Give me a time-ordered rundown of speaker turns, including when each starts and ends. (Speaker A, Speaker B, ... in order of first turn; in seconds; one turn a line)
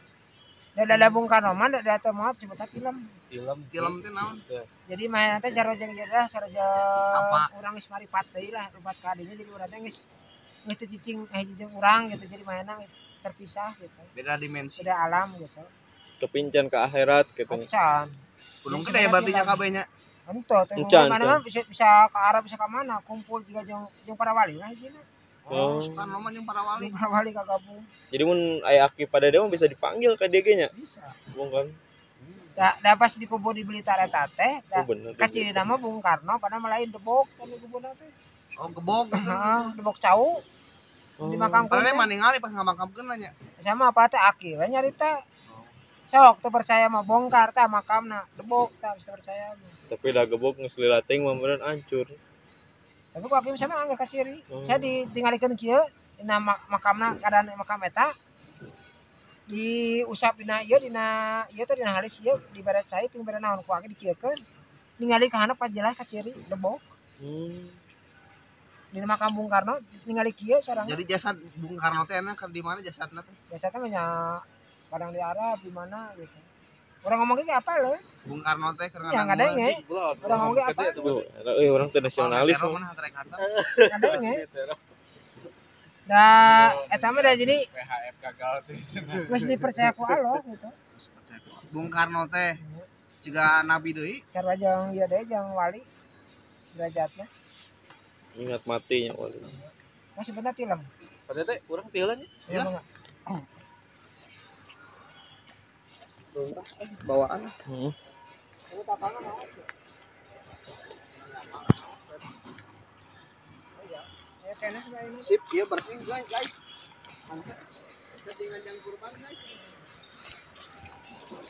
Speaker A: 0.8-3.0
Speaker B: 3.3-4.7
Speaker C: 3.7-4.4
Speaker A: 4.9-10.1
Speaker C: 7.1-7.5
Speaker A: 10.7-14.1
Speaker C: 14.2-14.9
Speaker A: 14.8-15.7
Speaker D: 16.2-17.7
Speaker A: 17.5-18.1
Speaker C: 18.6-19.9
Speaker A: 18.7-19.6
Speaker A: 20.3-25.0
Speaker D: 20.8-21.4
Speaker C: 25.5-26.9
Speaker D: 25.5-26.2
Speaker A: 26.8-27.9
Speaker D: 28.1-30.7
Speaker A: 30.7-31.2
Speaker D: 31.3-31.8
Speaker B: 32.2-32.6
Speaker A: 32.6-38.1
Speaker D: 34.8-35.5
Speaker C: 38.6-39.7
Speaker A: 39.1-40.4
Speaker D: 41.2-41.7
Speaker A: 41.2-42.1
Speaker C: 41.7-43.3
Speaker A: 43.6-45.1
Speaker A: 46.1-49.8
Speaker D: 49.9-52.2
Speaker A: 53.1-58.1
Speaker D: 54.5-55.0
Speaker A: 59.5-64.4
Speaker A: 65.0-66.8
Speaker D: 67.2-67.8
Speaker A: 68.9-71.0
Speaker C: 70.8-73.4
Speaker A: 73.5-76.5
Speaker A: 77.0-78.0
Speaker C: 78.3-79.7
Speaker A: 79.0-81.1
Speaker B: 79.6-81.3
Speaker D: 81.0-82.8
Speaker C: 82.2-83.5
Speaker B: 83.4-84.8
Speaker A: 83.9-84.5
Speaker A: 86.1-87.7
Speaker E: 86.5-89.5
Speaker A: 89.2-90.8
Speaker C: 91.0-92.6
Speaker A: 92.6-92.9
Speaker C: 93.2-94.2
Speaker A: 94.3-95.9
Speaker A: 96.7-97.3
Speaker D: 98.4-99.6
Speaker A: 100.2-100.9
Speaker B: 101.3-102.3
Speaker A: 102.5-102.8
Speaker C: 106.3-107.5
Speaker D: 107.7-108.0
Speaker A: 108.7-109.7
Speaker C: 111.2-112.2
Speaker A: 113.8-115.4
Speaker C: 115.2-116.6
Speaker C: 117.3-117.6
Speaker C: 118.2-119.7